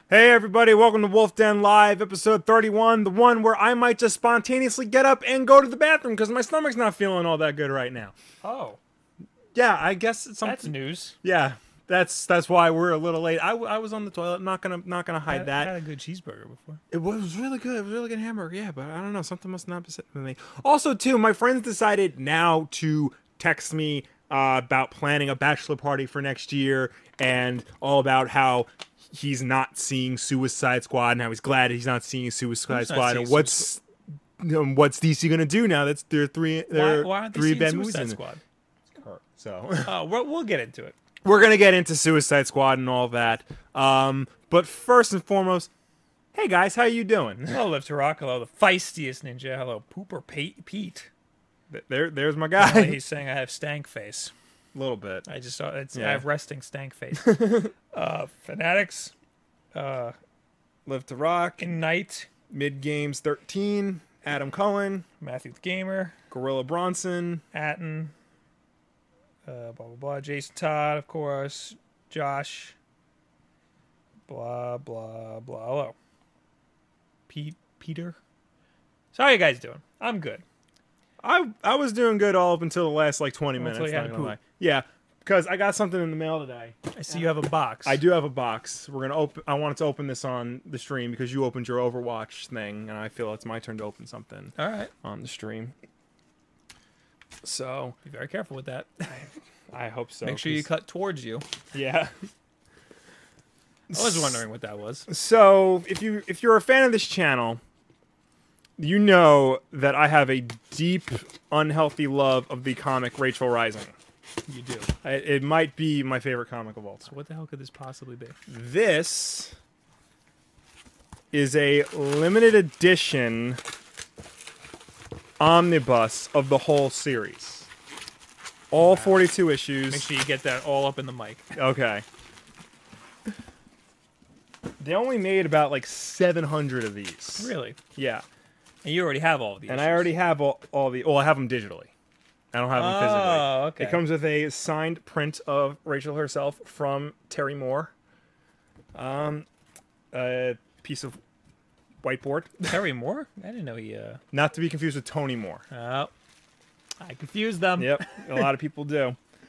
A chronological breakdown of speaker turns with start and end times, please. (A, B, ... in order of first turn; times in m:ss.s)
0:00.1-0:08.1 A
0:08.4-0:08.8 B
0:09.5-0:15.7 A
0:10.4-0:11.2 B
0:15.3-0:16.8 B
0:16.9-0:33.8 A
0:32.7-0:33.7 B
0:34.4-0:38.2 A
0:36.7-0:38.4 B
0:38.9-0:39.9 A
0:39.8-0:40.9 B
0:41.2-0:45.7 A
0:46.3-0:47.6 A
0:47.5-0:51.1 B
0:51.7-0:53.0 A
0:52.6-0:54.3 B
0:54.7-0:55.2 A
0:55.2-0:59.1 B
0:55.9-0:56.2 A
0:57.2-0:57.7 A
0:59.7-1:00.2 B
1:00.8-1:01.7 A
1:01.6-1:02.3 B
1:02.5-1:05.0 A
1:05.2-1:06.1 B
1:06.3-1:07.4 A
1:07.5-1:08.1 B
1:09.4-1:12.8 B
1:14.3-1:16.0 B
1:17.3-1:18.2 B
1:19.1-1:20.4 B
1:21.2-1:27.3 A
1:23.6-1:24.4 B
1:26.9-1:28.0 B
1:27.8-1:35.7 A
1:34.6-1:34.9 B
1:37.4-1:38.0 A
1:38.0-1:39.3 B
1:39.1-1:40.7 A
1:40.2-1:41.5 B
1:41.7-1:42.1 A
1:43.9-1:44.4 A
1:43.9-1:45.1 B
1:45.1-1:47.6 A
1:48.8-1:53.9 A
1:54.5-1:54.9 B
1:55.0-1:57.1 A
1:57.0-1:58.4 B
1:58.5-1:59.6 A
2:01.3-2:03.6 A
2:05.4-2:07.7 A
2:08.7-2:10.0 A
2:08.8-2:09.2 B
2:09.9-2:11.5 B
2:11.5-2:12.0 A
2:14.8-2:18.2 A
2:17.4-2:17.8 B
2:18.8-2:20.1 B
2:19.7-2:21.9 A
2:22.5-2:27.9 A
2:22.7-2:24.0 B
2:28.9-2:29.5 A
2:30.1-2:31.2 A
2:32.0-2:32.8 A
2:32.7-2:34.2 B
2:34.3-2:35.6 A
2:35.7-2:36.1 B
2:37.0-2:38.5 B
2:37.8-2:39.2 A